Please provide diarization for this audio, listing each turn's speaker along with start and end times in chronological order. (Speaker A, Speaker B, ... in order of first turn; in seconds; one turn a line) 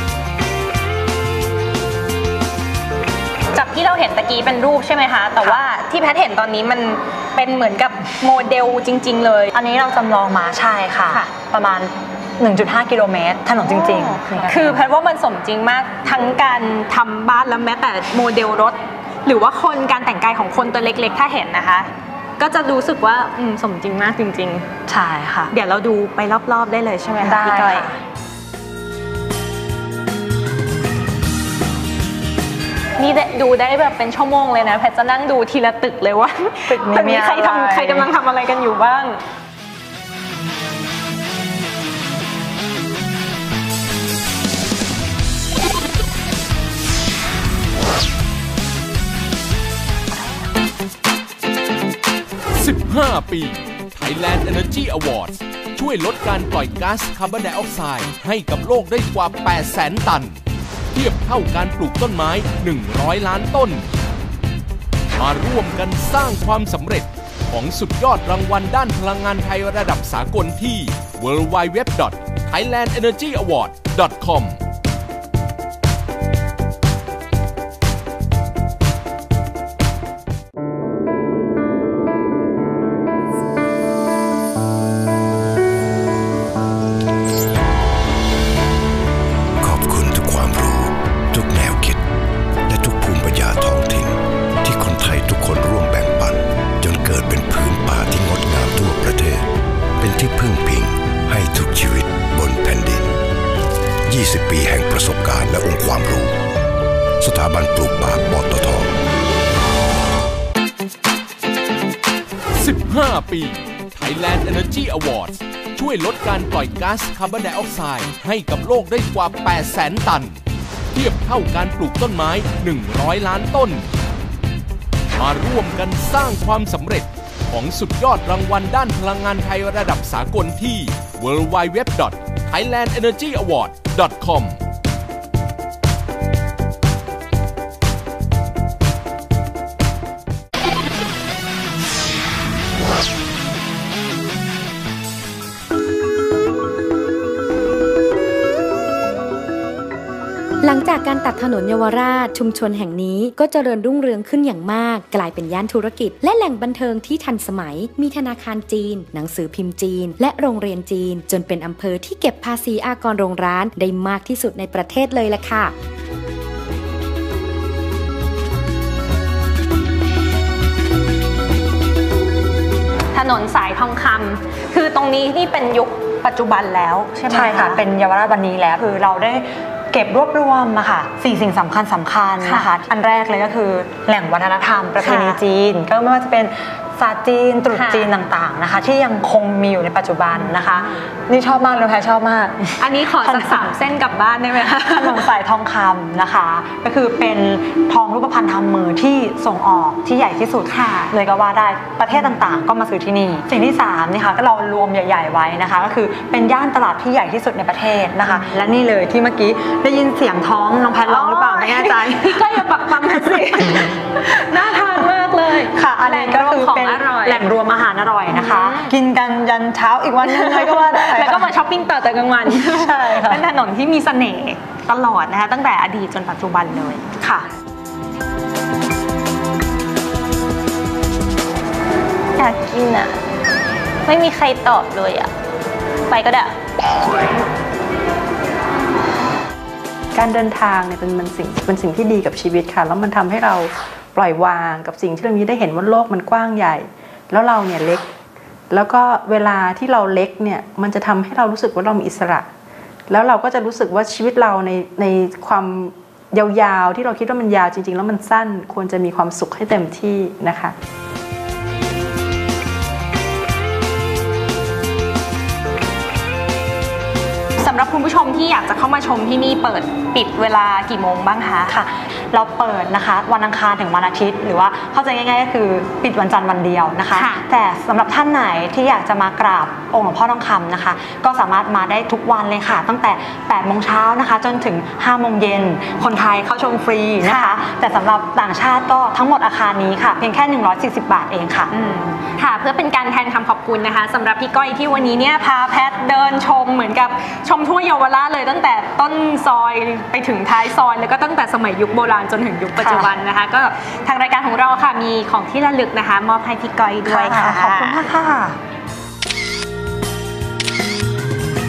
Speaker A: 3.5-9.5
Speaker B: 9.5-14.9
Speaker A: 13.6-24.7
Speaker B: 24.9-25.5
Speaker A: 25.5-27.9
Speaker B: 27.2-28.0
Speaker A: 33.0-39.2
Speaker B: 36.7-38.1
Speaker C: 52.5-60.4
Speaker C: 60.9-63.9
Speaker C: 65.2-74.6
Speaker D: 89.6-92.0
Speaker D: 92.7-99.4
Speaker D: 100.0-103.1
Speaker D: 104.1-106.3
Speaker D: 107.2-108.9
Speaker C: 112.5-120.4
Speaker C: 120.9-123.9
Speaker C: 125.2-134.6
Speaker E: 150.6-165.7
Speaker A: 173.1-177.8
Speaker B: 177.3-193.7
Speaker A: 182.4-182.7
Speaker A: 185.0-185.4
Speaker A: 187.7-188.1
Speaker A: 190.3-190.6
Speaker A: 192.8-195.3
Speaker B: 194.7-213.9
Speaker A: 200.7-201.1
Speaker A: 211.0-217.5
Speaker B: 215.7-221.5
Speaker A: 218.3-218.9
Speaker A: 220.2-227.1
Speaker B: 222.5-223.5
Speaker B: 227.2-227.4
Speaker A: 232.4-233.1
Speaker A: 234.1-235.3
Speaker A: 236.1-236.5
Speaker F: 240.1-248.1
Speaker F: 248.7-252.5
Speaker F: 253.1-260.7
Speaker A: 267.6-271.7
Speaker B: 271.7-291.7
Speaker A: 277.1-277.4
Speaker A: 287.2-287.6
Speaker A: 291.7-308.1
Speaker B: 302.8-303.1
Speaker B: 307.0-308.6